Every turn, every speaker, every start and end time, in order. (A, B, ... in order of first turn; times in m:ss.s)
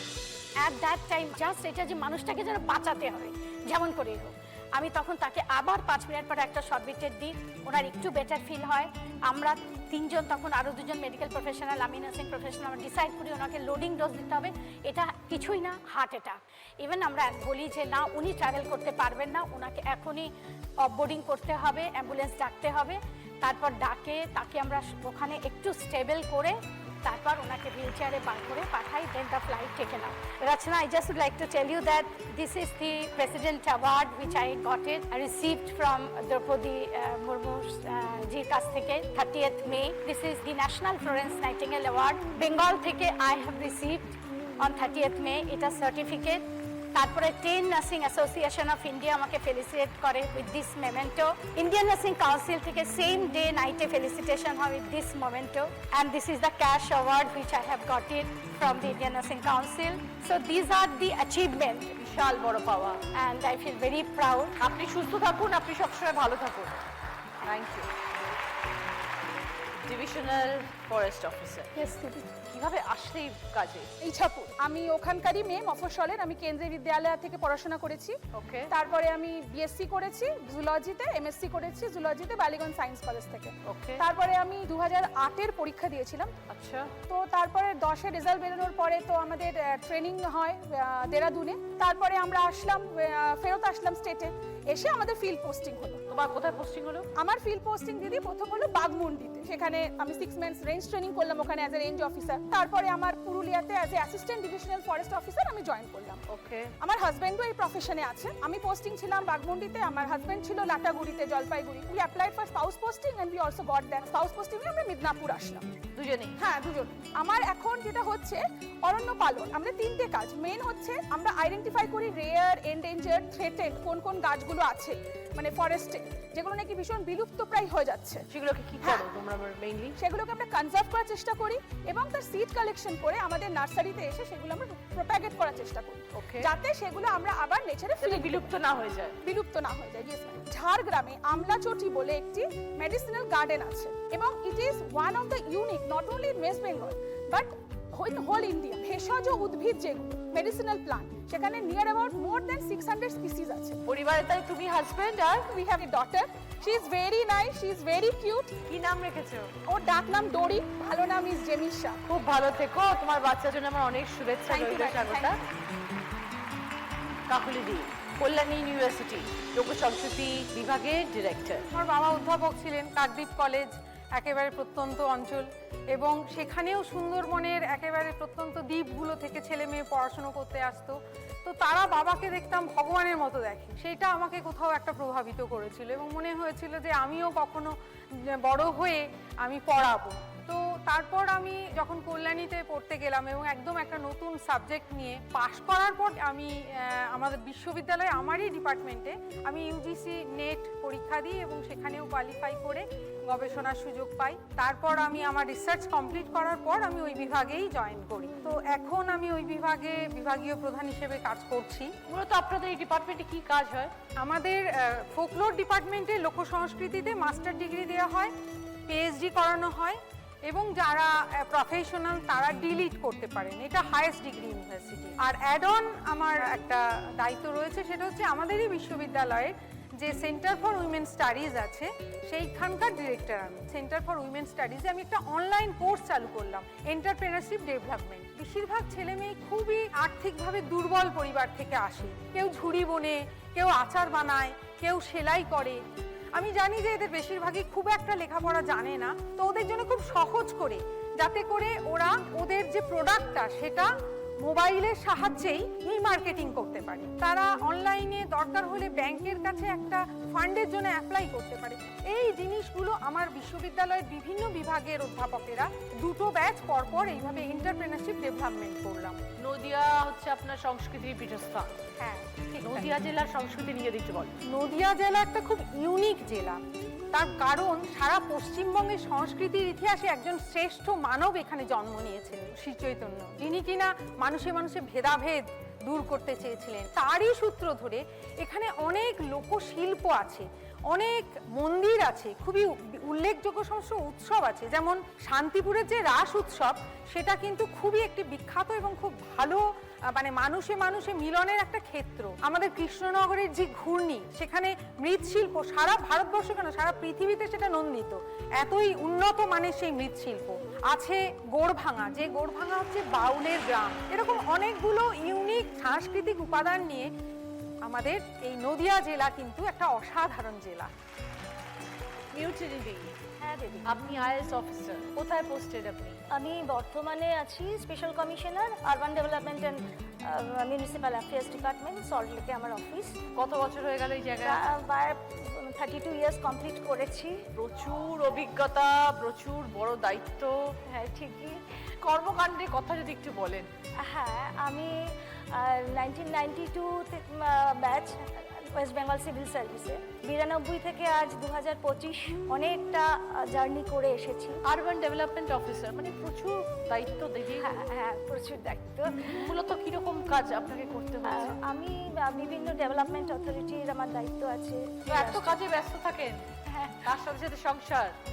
0:00.6-0:20.3 A
0:20.8-0:46.4 A
0:46.9-1:01.9 A
1:02.0-1:03.0 B
1:03.1-1:04.5 A
1:04.6-1:06.8 B
1:07.4-1:07.9 B
1:09.8-1:11.8 B
1:12.5-1:13.9 B
1:14.0-1:18.2 C
1:18.4-1:18.7 B
1:18.7-1:26.3 C
1:23.7-1:24.0 B
1:26.5-1:26.9 B
1:27.1-1:36.0 C
1:36.1-1:37.1 B
1:37.2-1:46.2 C
1:46.3-1:46.7 B
1:46.8-1:55.7 C
1:55.9-1:56.4 B
1:56.4-2:08.2 C
2:08.3-2:09.9 B
2:08.8-2:09.0 C
2:10.0-2:18.5 C
2:16.1-2:16.5 B
2:18.0-2:19.1 B
2:19.2-2:33.8 C
2:33.8-2:35.5 B
2:35.5-2:38.5 C
2:38.7-2:39.5 B
2:39.7-2:42.0 C
2:42.1-2:45.4 B
2:44.5-2:45.4 C
2:47.3-2:51.6 B
2:51.7-3:07.7 D
3:08.4-3:31.9 D
3:32.1-3:33.9 B
3:34.2-3:38.3 D
3:38.9-4:05.8 D
4:06.3-4:13.9 D
4:14.4-4:29.2 D
4:29.4-4:31.7 B
4:32.0-4:32.9 D
4:32.6-4:34.3 B
4:34.5-4:36.6 D
4:37.1-5:17.1 D
5:17.8-5:20.9 D
5:22.3-5:23.1 B
5:23.4-5:24.0 E
5:23.8-5:26.2 B
5:26.3-5:33.2 E
5:33.3-5:34.7 B
5:34.4-5:37.4 E
5:37.6-5:40.5 B
5:40.9-5:41.6 E
5:42.0-5:43.7 B
5:44.1-5:44.9 E
5:45.5-5:54.6 E
5:54.6-5:57.7 B
5:57.5-5:59.5 E
5:59.3-6:01.6 B
6:01.2-6:05.6 E
6:05.0-6:06.5 B
6:06.6-6:07.2 E
6:07.0-6:08.1 B